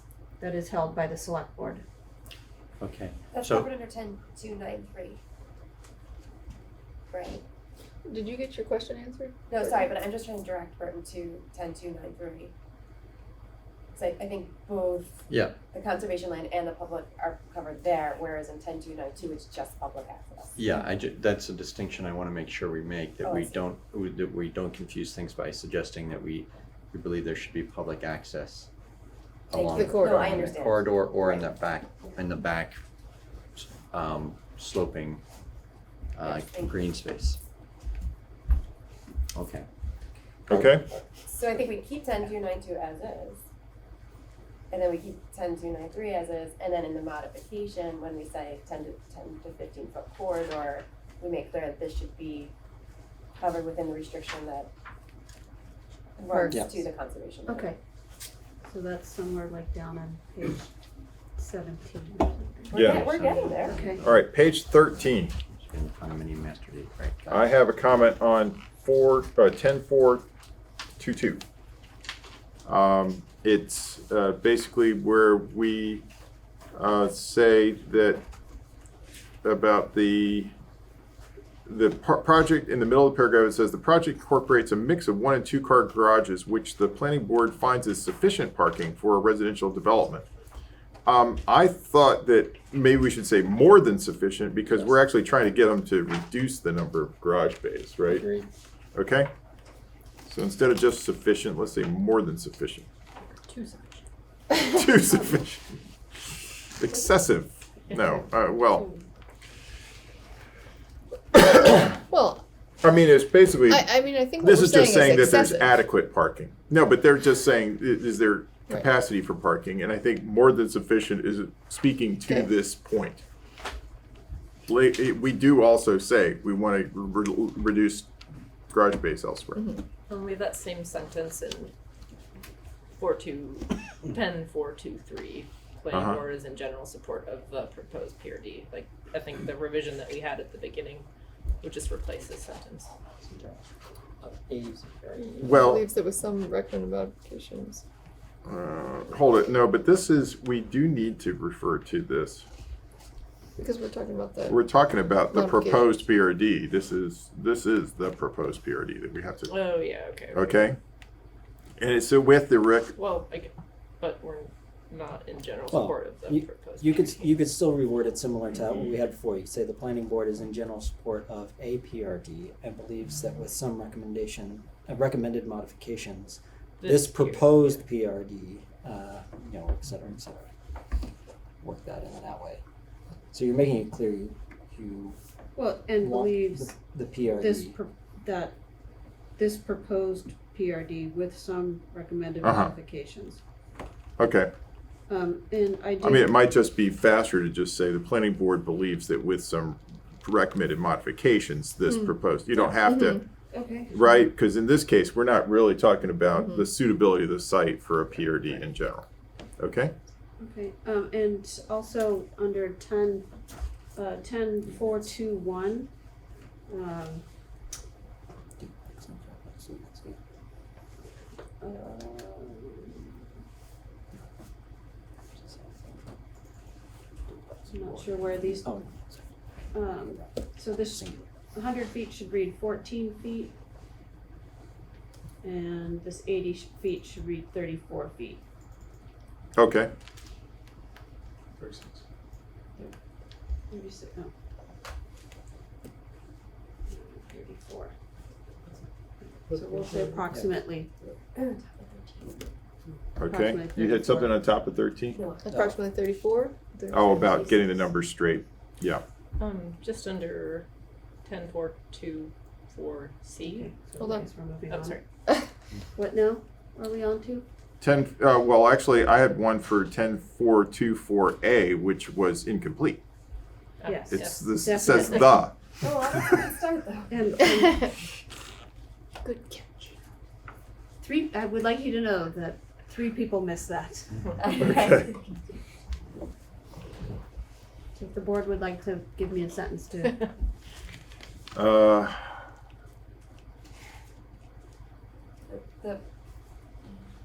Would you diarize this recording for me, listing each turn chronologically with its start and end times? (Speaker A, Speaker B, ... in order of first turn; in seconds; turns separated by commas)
Speaker A: 0.4-1.8, Speaker B: 2.8-3.7, Speaker C: 3.3-5.2, Speaker C: 7.1-7.4, Speaker D: 8.1-9.8, Speaker C: 8.9-12.5, Speaker C: 13.9-20.6, Speaker B: 15.3-15.7, Speaker B: 20.6-28.7, Speaker C: 23.2-23.7, Speaker B: 29.5-32.8, Speaker C: 29.5-31.5, Speaker D: 29.8-30.0, Speaker B: 33.6-35.2, Speaker B: 36.2-37.4, Speaker C: 36.2-36.9, Speaker B: 39.3-39.7, Speaker E: 40.5-40.9, Speaker C: 41.2-43.4, Speaker C: 44.7-52.5, Speaker C: 53.4-54.7, Speaker C: 56.2-57.7, Speaker A: 56.3-56.7, Speaker A: 57.5-57.8, Speaker A: 58.6-60.7, Speaker A: 61.4-63.1, Speaker C: 62.7-63.8, Speaker E: 62.7-63.0, Speaker B: 62.8-64.9, Speaker A: 63.6-64.0, Speaker E: 64.0-65.4, Speaker B: 65.4-67.5, Speaker E: 67.3-70.3, Speaker E: 71.0-71.4, Speaker E: 72.7-76.0, Speaker E: 76.7-78.2, Speaker E: 79.4-80.5, Speaker E: 81.7-90.3, Speaker E: 91.0-98.3, Speaker A: 98.2-98.5, Speaker E: 99.0-99.3, Speaker E: 100.3-102.9, Speaker F: 103.5-104.0, Speaker E: 104.5-105.6, Speaker E: 106.8-108.9, Speaker A: 108.7-109.0, Speaker E: 111.3-112.0, Speaker D: 112.1-112.4, Speaker E: 112.8-123.2, Speaker D: 113.8-115.6, Speaker E: 124.7-128.1, Speaker E: 128.7-129.8, Speaker F: 130.1-131.7, Speaker F: 132.9-141.1, Speaker E: 135.9-136.2, Speaker F: 141.6-142.9, Speaker G: 143.2-143.6, Speaker G: 144.2-145.6, Speaker E: 145.4-145.8, Speaker C: 145.6-147.7, Speaker D: 145.7-147.8, Speaker E: 148.4-152.5, Speaker C: 153.6-154.6, Speaker D: 153.6-154.5, Speaker E: 154.5-159.6, Speaker D: 155.3-155.7, Speaker F: 159.5-160.6, Speaker E: 160.3-160.8, Speaker E: 161.8-162.9, Speaker F: 162.9-167.4, Speaker G: 165.7-180.5, Speaker F: 176.8-177.7, Speaker G: 181.6-182.6, Speaker G: 183.3-185.2, Speaker A: 185.6-186.8, Speaker G: 186.0-187.8, Speaker A: 187.4-188.6, Speaker A: 189.4-193.4, Speaker E: 192.4-192.7, Speaker E: 194.2-194.5, Speaker A: 195.1-196.3, Speaker E: 196.0-203.2, Speaker A: 203.5-204.0, Speaker E: 203.9-209.1, Speaker E: 209.6-209.9, Speaker A: 210.4-213.3, Speaker A: 213.9-215.9, Speaker A: 216.7-217.2, Speaker G: 218.6-220.2, Speaker A: 221.6-223.0, Speaker G: 225.4-226.0, Speaker G: 227.5-231.3, Speaker A: 227.7-228.8, Speaker A: 229.7-233.5, Speaker A: 235.4-238.4, Speaker E: 239.6-239.9, Speaker G: 241.6-241.9, Speaker A: 243.7-244.3, Speaker A: 246.9-247.9, Speaker A: 249.5-250.9, Speaker C: 251.3-252.5, Speaker E: 253.2-255.2, Speaker A: 253.2-254.4, Speaker C: 255.1-257.0, Speaker D: 255.5-256.9, Speaker G: 255.5-255.8, Speaker E: 256.9-259.0, Speaker F: 259.4-260.7, Speaker F: 261.2-263.8, Speaker A: 263.4-265.0, Speaker F: 264.7-265.0, Speaker A: 266.0-267.5, Speaker E: 267.8-273.0, Speaker F: 273.8-274.4, Speaker A: 273.9-275.5, Speaker E: 274.1-275.7, Speaker C: 275.8-277.2, Speaker A: 277.1-277.9, Speaker A: 281.0-285.1, Speaker E: 284.6-285.0, Speaker A: 288.0-290.3, Speaker E: 291.6-292.4, Speaker C: 295.5-296.0